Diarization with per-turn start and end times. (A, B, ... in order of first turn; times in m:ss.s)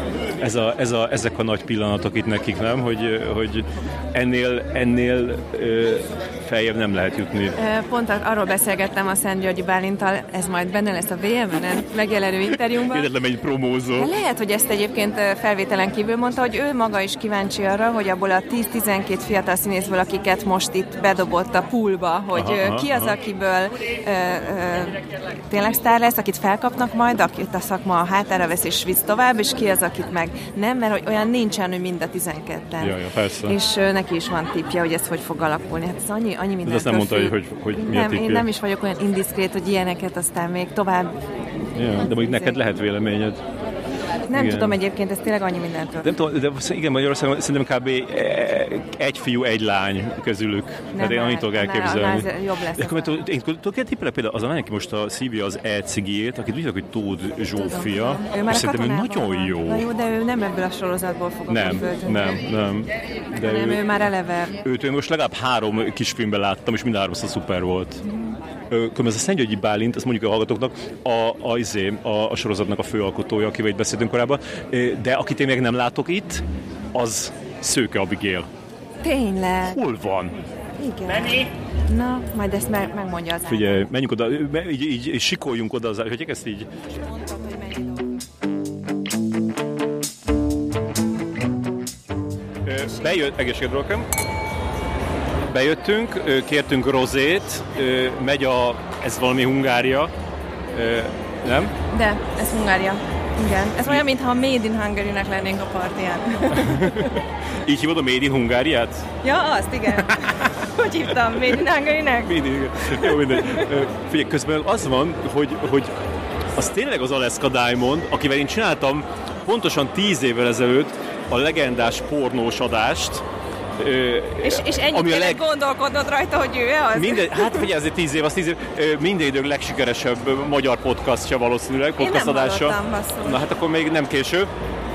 0:00.4-0:07.6 A
0:07.6-0:13.1 B
0:12.8-0:14.1 A
0:14.0-0:33.0 B
0:22.3-0:23.2 A
0:32.8-0:33.6 A
0:33.5-0:41.2 B
0:36.7-0:38.5 A
0:41.8-0:43.4 A
0:42.0-0:42.6 B
0:44.3-0:46.2 B
0:44.3-0:44.8 A
0:46.0-0:59.9 A
0:50.9-0:53.2 B
0:57.6-1:02.4 B
1:01.5-1:03.8 A
1:03.4-1:04.6 B
1:04.6-1:08.0 A
1:08.0-1:08.4 B
1:08.7-1:16.4 A
1:16.9-1:18.5 A
1:19.0-1:19.8 B
1:19.7-1:20.4 A
1:20.8-1:23.9 B
1:23.5-1:26.7 A
1:27.0-1:27.9 B
1:32.7-1:34.1 A
1:35.5-1:40.1 A
1:40.7-1:41.7 A
1:41.9-1:47.1 B
1:46.6-1:49.0 A
1:49.2-1:52.4 B
1:52.2-1:55.9 A
1:53.0-1:53.6 B
1:56.6-2:03.2 A
2:03.8-2:05.4 A
2:04.4-2:07.7 B
2:06.9-2:14.5 A
2:12.0-2:13.4 B